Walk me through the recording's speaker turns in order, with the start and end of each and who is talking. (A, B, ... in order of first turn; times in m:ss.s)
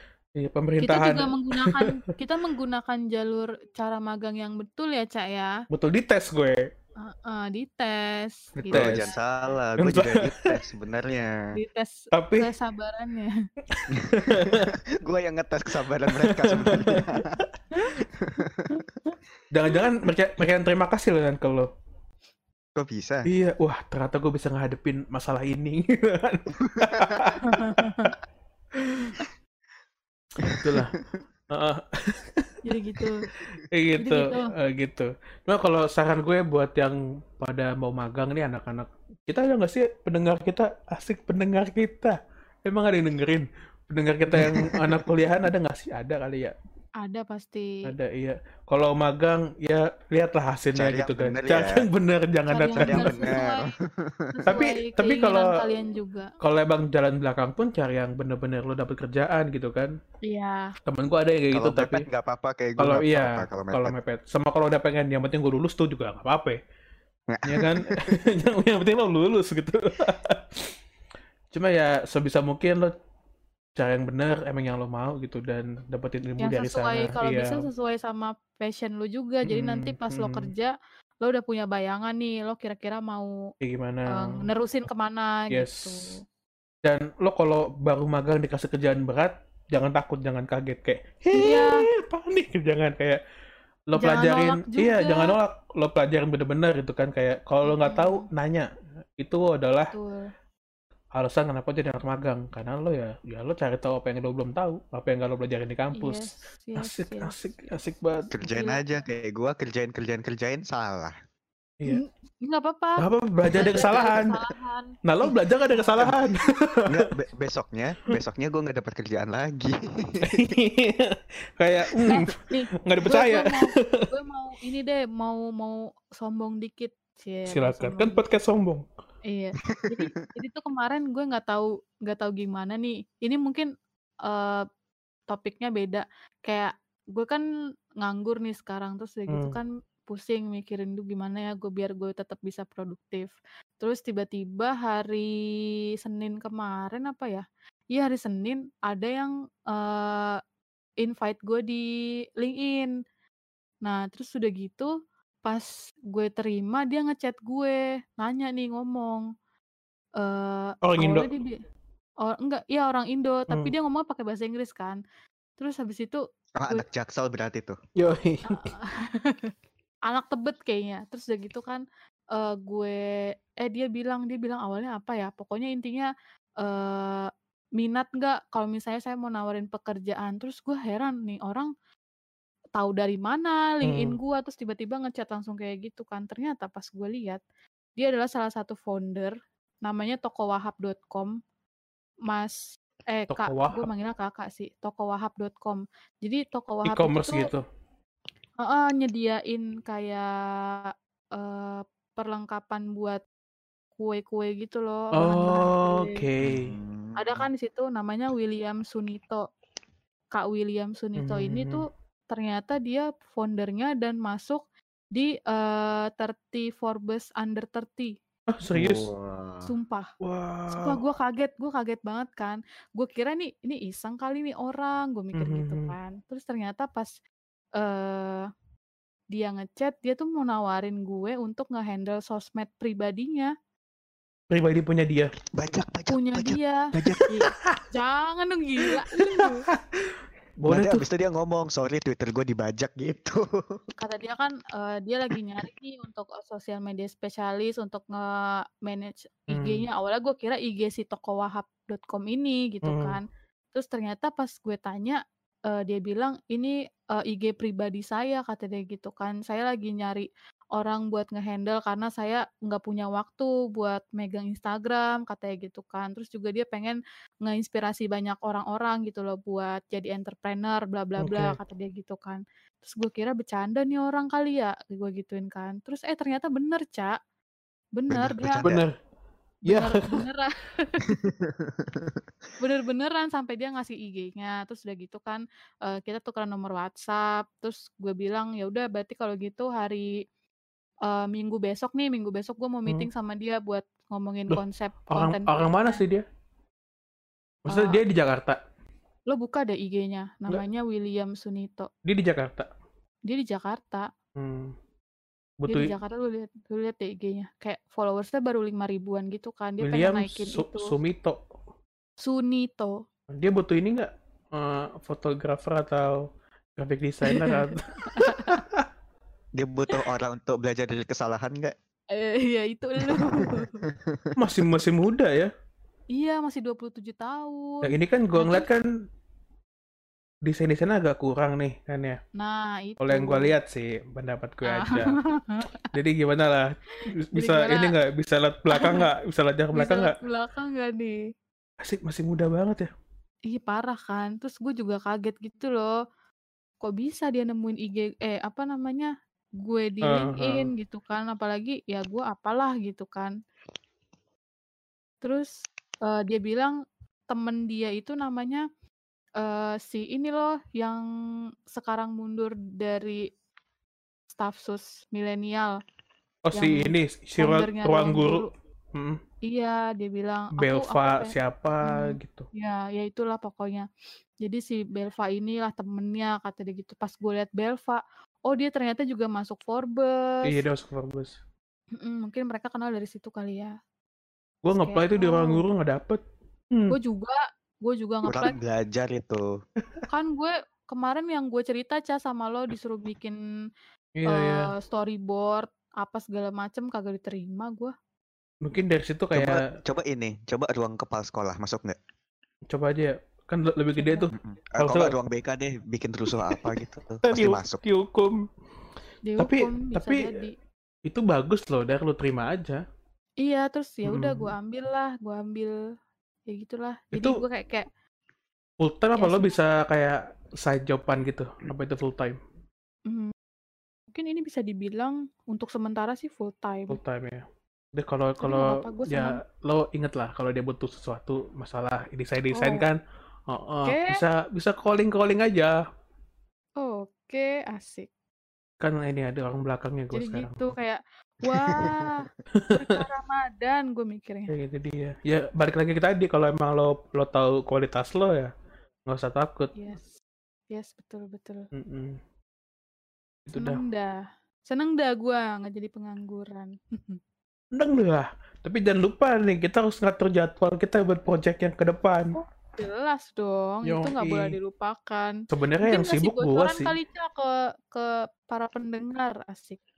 0:00.4-0:01.9 A
0:00.8-0:05.5 B
0:05.7-0:06.7 A
0:07.0-0:09.2 B
0:08.6-0:09.1 A
0:08.7-0:11.5 C
0:09.8-0:10.6 A
0:11.5-0:13.4 B
0:12.1-0:12.5 A
0:13.7-0:14.7 A
0:13.9-0:17.4 C
0:16.1-0:17.4 A
0:16.7-0:17.1 B
0:18.0-0:19.0 C
0:19.5-0:21.7 A
0:22.8-0:23.3 C
0:23.3-0:27.9 A
0:26.6-0:27.2 C
0:27.4-0:28.1 B
0:28.9-0:29.2 A
0:30.4-0:30.9 C
0:30.5-0:31.0 A
0:31.5-0:32.5 A
0:32.6-0:33.3 B
0:33.5-0:46.6 A
0:34.0-0:34.5 B
0:44.3-0:45.0 C
0:47.0-0:47.8 B
0:47.9-0:53.4 A
0:50.8-0:51.9 C
0:52.5-0:53.7 B
0:52.8-0:54.6 C
0:54.3-0:56.3 B
0:54.5-0:55.5 A
0:56.4-1:00.0 A
1:00.2-1:00.7 B
1:00.9-1:02.0 A
1:01.5-1:04.0 C
1:02.8-1:06.6 A
1:07.3-1:08.1 C
1:07.5-1:10.6 A
1:11.5-1:12.9 A
1:13.8-1:17.6 A
1:16.4-1:23.5 B
1:19.5-1:20.5 A
1:23.6-1:24.4 A
1:24.1-1:26.2 B
1:25.5-1:25.9 A
1:26.8-1:33.2 A
1:31.3-1:31.9 B
1:33.9-1:39.9 A
1:34.0-1:35.4 B
1:37.6-1:38.2 B
1:39.9-1:40.3 B
1:41.2-1:48.3 A
1:46.0-1:47.3 B
1:48.3-1:51.2 C
1:48.4-1:48.8 B
1:51.9-1:56.5 B
1:53.0-1:54.4 A
1:55.0-1:57.0 A
1:56.9-2:00.5 C
2:00.2-2:04.1 A
2:02.1-2:08.2 B
2:07.5-2:08.8 A
2:09.3-2:13.7 B
2:09.7-2:10.0 C
2:14.3-2:14.6 B
2:15.3-2:17.5 B
2:18.0-2:30.4 B
2:19.3-2:19.6 A
2:31.0-2:31.9 B
2:32.4-2:32.9 B
2:33.8-2:34.9 B
2:35.5-2:39.2 B
2:40.2-2:41.6 B
2:40.8-2:41.3 A
2:42.2-2:45.0 B
2:45.6-2:46.8 B
2:46.6-2:47.8 C
2:48.0-2:48.7 A
2:48.5-2:49.5 B
2:50.1-2:51.8 B
2:52.3-2:53.0 B
2:53.6-2:56.1 B
2:56.6-3:01.7 B
3:02.8-3:07.4 B
3:03.8-3:04.2 A
3:08.0-3:11.4 B
3:12.3-3:17.5 B
3:13.3-3:13.9 A
3:16.8-3:17.6 A
3:18.6-3:23.2 B
3:24.0-3:26.2 B
3:25.1-3:26.8 A
3:26.4-3:27.5 C
3:27.2-3:29.4 B
3:30.3-3:34.6 B
3:31.2-3:31.8 A
3:35.2-3:38.1 B
3:38.5-3:39.1 A
3:38.8-3:39.7 C
3:39.6-3:40.1 B
3:40.2-3:41.0 A
3:40.7-3:47.2 B
3:45.4-3:46.0 A
3:47.8-3:48.5 B
3:49.3-3:53.5 B
3:54.5-3:55.3 A
3:55.5-3:57.3 C
3:56.1-3:59.7 B
3:57.5-3:57.8 A
3:59.2-3:59.4 A
4:00.6-4:01.0 A
4:00.7-4:03.8 C
4:04.0-4:37.2 B
4:09.5-4:09.9 A
4:12.8-4:13.2 A
4:31.2-4:31.6 A
4:38.0-4:38.7 B
4:38.1-4:38.8 C
4:38.6-4:38.9 A
4:39.6-4:40.2 A
4:39.7-4:41.1 B
4:41.1-4:42.2 C
4:42.6-4:50.1 B
4:51.1-4:56.0 B
4:54.5-4:56.2 A
4:57.7-4:58.6 A
4:57.7-4:58.0 B
4:59.3-5:01.9 B
5:02.0-5:02.7 A
5:03.3-5:04.1 B
5:04.4-5:04.7 A
5:05.6-5:05.9 A
5:05.7-5:10.9 B
5:09.8-5:11.4 A
5:12.2-5:13.0 B
5:13.3-5:16.2 A
5:16.8-5:18.8 A
5:17.2-5:18.6 B
5:19.6-5:21.8 C
5:22.1-5:23.8 B
5:23.2-5:24.4 C
5:24.4-5:25.5 A
5:26.1-5:28.7 B
5:27.9-5:28.8 A
5:30.5-5:32.2 A
5:32.4-5:33.5 B
5:33.0-5:35.2 A
5:34.6-5:35.9 B
5:35.9-5:40.2 A
5:37.3-5:37.9 B
5:38.7-5:39.1 B
5:39.7-5:41.2 B
5:41.8-5:42.9 A
5:43.5-5:46.0 B
5:46.8-5:49.1 B
5:49.6-5:53.4 B
5:50.0-5:50.7 A
5:55.2-5:56.8 B
5:57.3-5:58.6 B
5:59.4-6:01.0 B
6:01.7-6:03.2 B
6:04.3-6:05.8 B
6:06.5-6:09.2 A
6:06.5-6:08.5 B
6:09.4-6:11.4 B
6:10.6-6:12.5 A
6:11.9-6:13.9 B
6:14.4-6:20.6 B
6:20.4-6:21.4 A
6:21.9-6:23.7 B
6:24.6-6:26.2 A
6:24.7-6:25.6 B
6:26.9-6:28.5 B
6:28.3-6:29.5 C
6:30.1-6:33.4 B
6:34.2-6:34.7 A
6:34.3-6:37.9 B
6:38.6-6:39.7 A
6:39.3-6:42.0 C
6:42.7-6:45.2 A
6:44.0-6:44.3 B
6:44.3-6:47.8 C
6:47.2-6:48.4 A
6:49.3-6:50.5 B
6:49.4-6:50.3 A
6:51.1-6:52.8 A
6:53.4-6:55.8 B
6:54.0-6:54.5 A
6:56.5-6:57.9 B
6:57.1-6:57.4 A
6:58.8-7:02.4 A
6:59.2-6:59.6 B
7:03.1-7:03.3 B
7:04.1-7:07.0 B
7:06.9-7:07.4 A
7:08.0-7:15.8 A
7:08.4-7:09.4 B
7:12.5-7:12.8 B
7:13.8-7:14.2 B
7:16.8-7:18.1 B
7:18.8-7:20.7 A
7:20.1-7:24.5 B
7:21.4-7:22.2 C
7:22.6-7:23.0 A
7:24.5-7:28.5 A
7:29.1-7:29.8 A
7:29.8-7:30.2 B
7:30.7-7:31.6 B
7:31.7-7:32.2 A
7:33.5-7:33.8 A
7:33.6-7:37.2 B
7:37.8-7:42.4 A
7:42.3-7:49.8 B
7:43.8-7:44.6 A
7:45.5-7:47.0 A